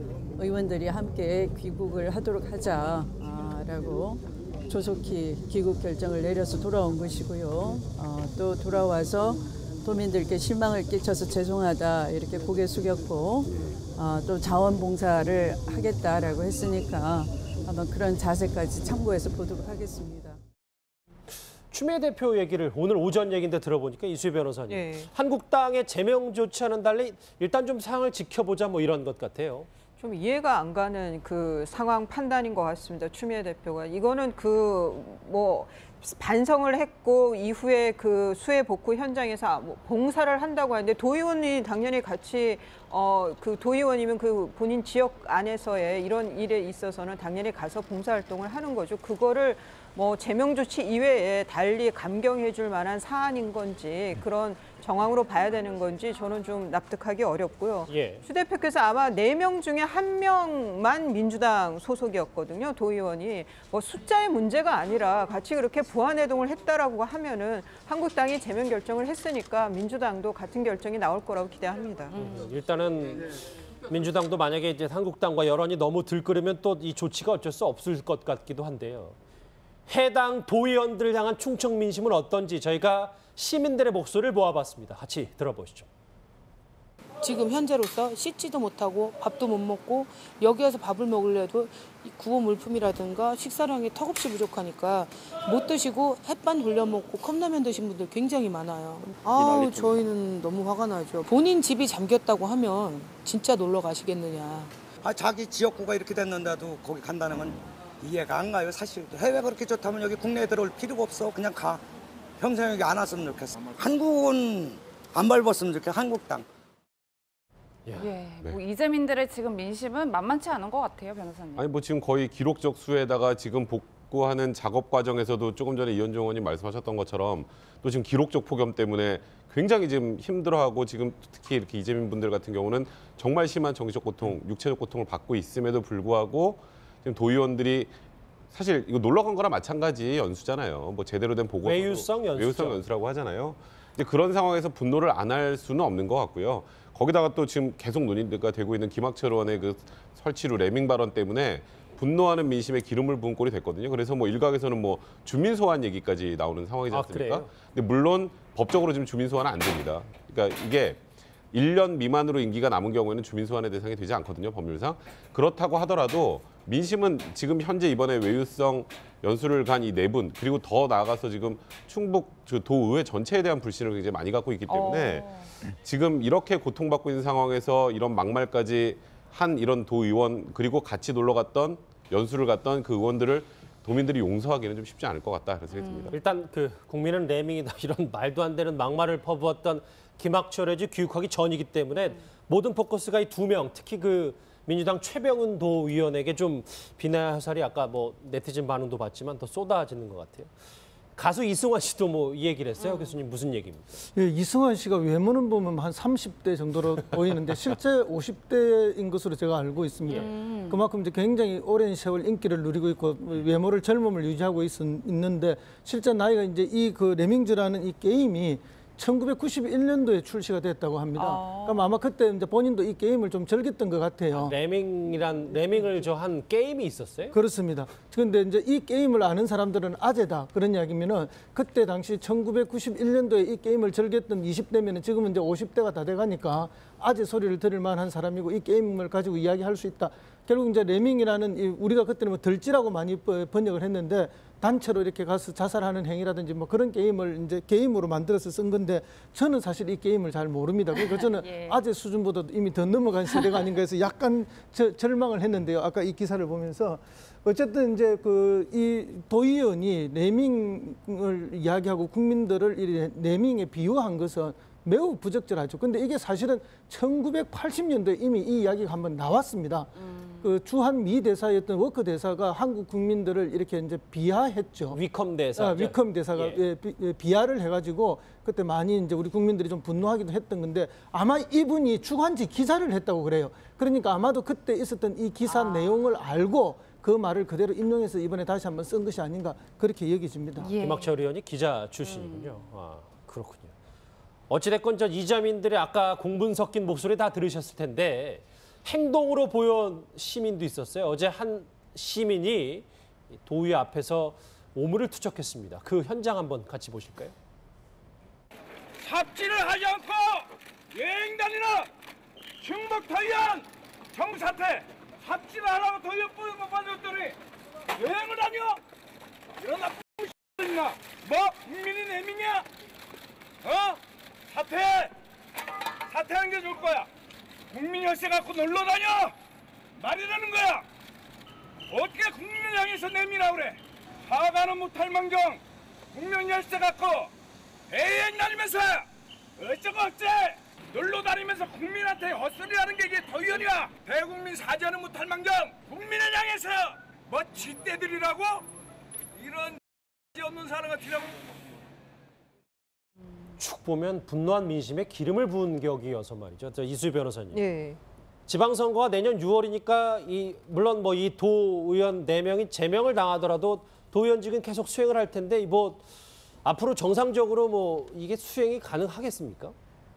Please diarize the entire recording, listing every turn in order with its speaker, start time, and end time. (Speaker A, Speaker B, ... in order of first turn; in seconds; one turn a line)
Speaker A: 0.4-20.4
Speaker B: 21.7-29.7
Speaker C: 24.7-25.1
Speaker C: 30.0-72.2
Speaker B: 57.9-58.2
Speaker B: 72.1-73.3
Speaker B: 73.9-79.2
Speaker B: 79.9-85.9
Speaker D: 87.2-104.8
Speaker E: 105.0-111.8
Speaker E: 112.4-116.4
Speaker B: 117.9-118.1
Speaker F: 117.9-121.6
Speaker G: 121.6-137.9
Speaker G: 138.5-161.0
Speaker B: 141.6-142.8
Speaker B: 156.9-157.5
Speaker G: 161.5-186.2
Speaker F: 174.7-175.2
Speaker F: 185.8-186.0
Speaker B: 186.1-200.5
Speaker B: 201.2-204.0
Speaker F: 202.8-203.2
Speaker H: 204.1-224.6
Speaker F: 210.2-210.8
Speaker F: 221.2-221.9
Speaker B: 224.3-227.4
Speaker H: 225.5-226.1
Speaker H: 227.3-275.0
Speaker F: 250.9-251.8
Speaker F: 253.3-253.6
Speaker B: 274.9-276.6
Speaker H: 275.6-290.7
Speaker F: 285.5-286.1
Speaker F: 290.6-291.1
Speaker B: 290.6-293.7
Speaker F: 292.0-292.7
Speaker B: 294.5-302.9
Speaker B: 303.4-307.4
Speaker I: 309.0-311.9
Speaker I: 312.6-317.4
Speaker I: 318.0-318.8
Speaker I: 319.6-322.6
Speaker I: 323.6-324.0
Speaker I: 324.5-325.1
Speaker I: 326.1-327.1
Speaker I: 327.7-329.3
Speaker I: 330.0-330.8
Speaker I: 331.9-335.6
Speaker I: 336.1-337.3
Speaker I: 337.9-339.0
Speaker I: 339.6-348.6
Speaker I: 349.4-349.8
Speaker I: 350.4-351.3
Speaker B: 353.6-357.6
Speaker C: 357.5-358.0
Speaker B: 358.5-366.1
Speaker B: 366.6-369.8